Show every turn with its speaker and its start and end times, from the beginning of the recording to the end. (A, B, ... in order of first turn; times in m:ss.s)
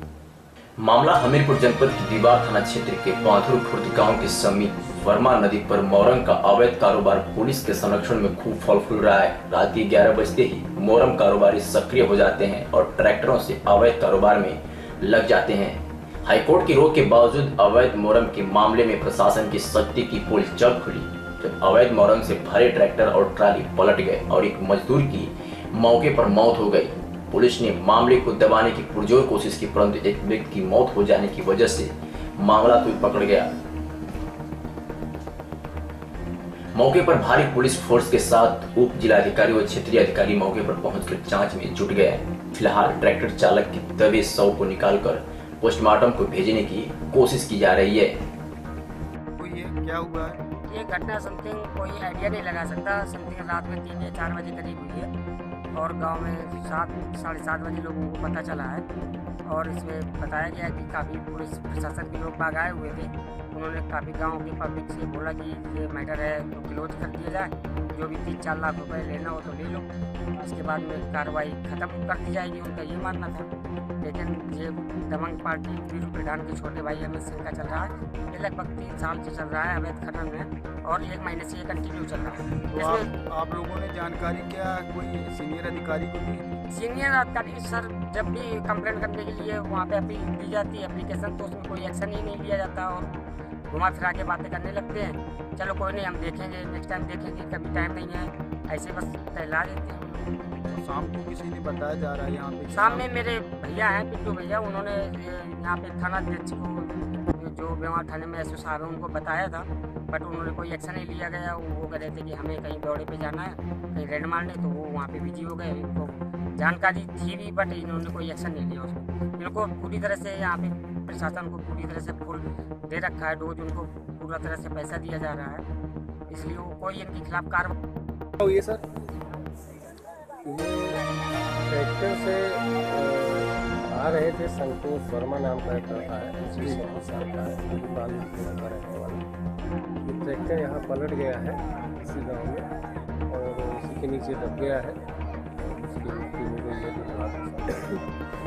0:00.8-0:33.5 A
0:36.7-0:48.2 A
0:49.4-0:50.4 B
0:50.7-0:55.1 C
0:55.7-0:58.8 C
0:59.4-1:13.5 C
1:14.0-1:23.1 C
1:22.7-1:26.4 B
1:26.7-1:33.1 C
1:33.7-1:40.2 C
1:40.7-1:43.1 B
1:42.7-2:05.6 C
2:06.3-2:07.7 C
2:08.4-2:08.8 D
2:10.4-2:11.0 D
2:11.6-2:19.2 D
2:20.0-2:22.7 D
2:23.3-2:25.0 D
2:25.6-2:28.0 D